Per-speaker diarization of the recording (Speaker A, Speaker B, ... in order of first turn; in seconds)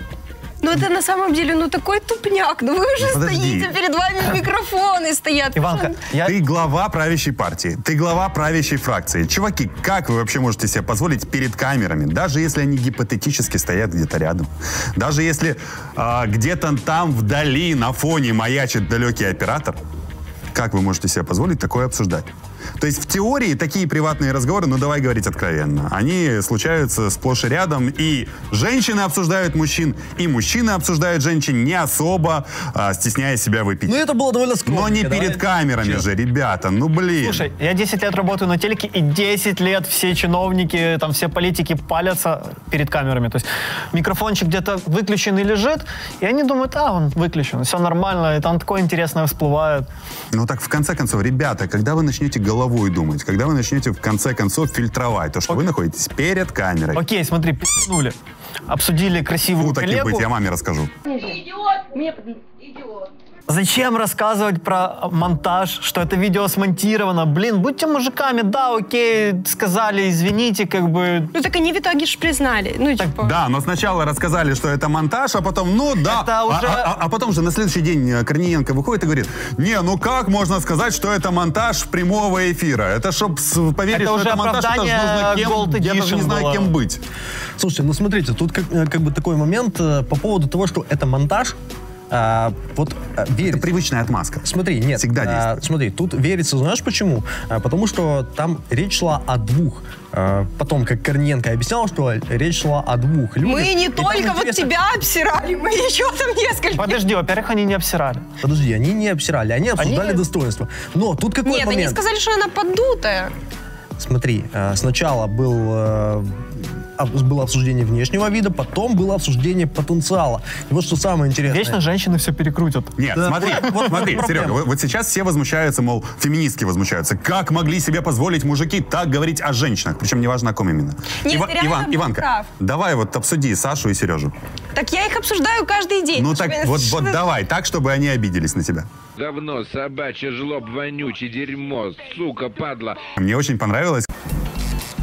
Speaker A: 0.6-6.0, 71.3-73.3, 103.4-107.0, 111.4-113.3, 131.2-132.5, 134.8-137.2
Speaker B: 3.0-3.7, 6.2-19.8, 20.5-34.0, 34.6-37.4, 50.3-57.0, 59.6-60.9, 73.2-87.0, 93.4-95.6, 123.0-134.3, 136.2-138.9, 143.2-144.1
Speaker C: 5.5-6.3, 37.2-49.9, 56.9-58.1, 58.7-60.3, 63.5-71.3, 76.0-76.9, 83.9-86.7, 106.8-108.2, 109.8-110.2, 121.5-122.9, 123.5-124.0
Speaker D: 33.9-36.0, 87.6-91.6, 92.1-93.7, 94.4-104.7, 108.4-112.0, 114.0-121.8, 123.1-124.6
Speaker E: 139.2-143.0